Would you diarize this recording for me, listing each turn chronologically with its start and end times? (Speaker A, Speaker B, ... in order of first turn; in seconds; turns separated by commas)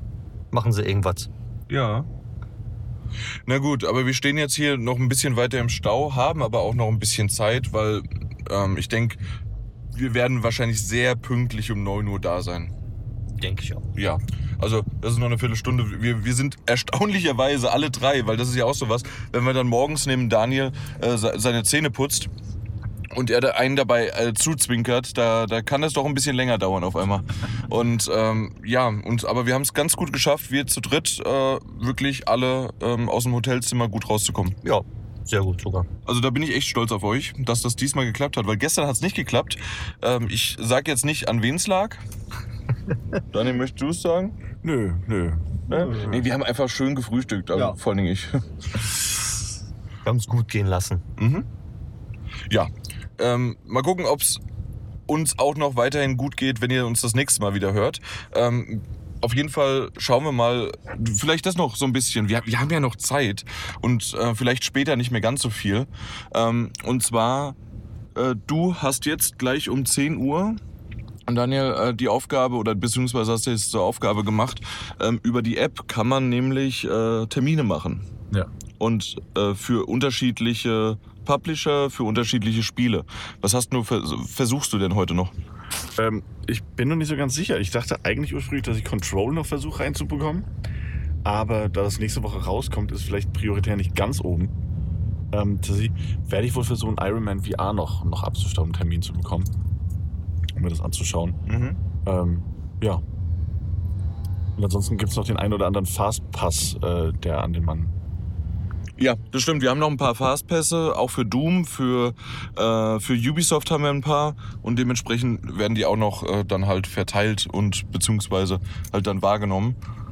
Speaker A: 0.5-1.3, Speaker B: 1.7-2.1, Speaker B: 3.5-9.2, Speaker B: 9.9-12.7, Speaker A: 13.4-13.8, Speaker B: 13.9-22.3, Speaker B: 23.1-34.6, Speaker A: 34.6-35.9, Speaker B: 36.1-42.0, Speaker B: 43.3-44.4, Speaker C: 44.6-46.2, Speaker B: 45.7-48.4, Speaker A: 45.7-46.2, Speaker A: 50.0-51.0, Speaker B: 51.2-51.5, Speaker B: 52.5-54.4, Speaker B: 55.1-67.6, Speaker B: 68.2-70.6, Speaker B: 71.3-78.1, Speaker B: 78.8-85.3, Speaker C: 86.0-90.5, Speaker C: 91.2-94.5, Speaker C: 95.3-99.5, Speaker C: 100.6-101.4, Speaker B: 101.5-101.8, Speaker C: 102.0-103.0, Speaker C: 104.6-107.9, Speaker B: 109.0-119.8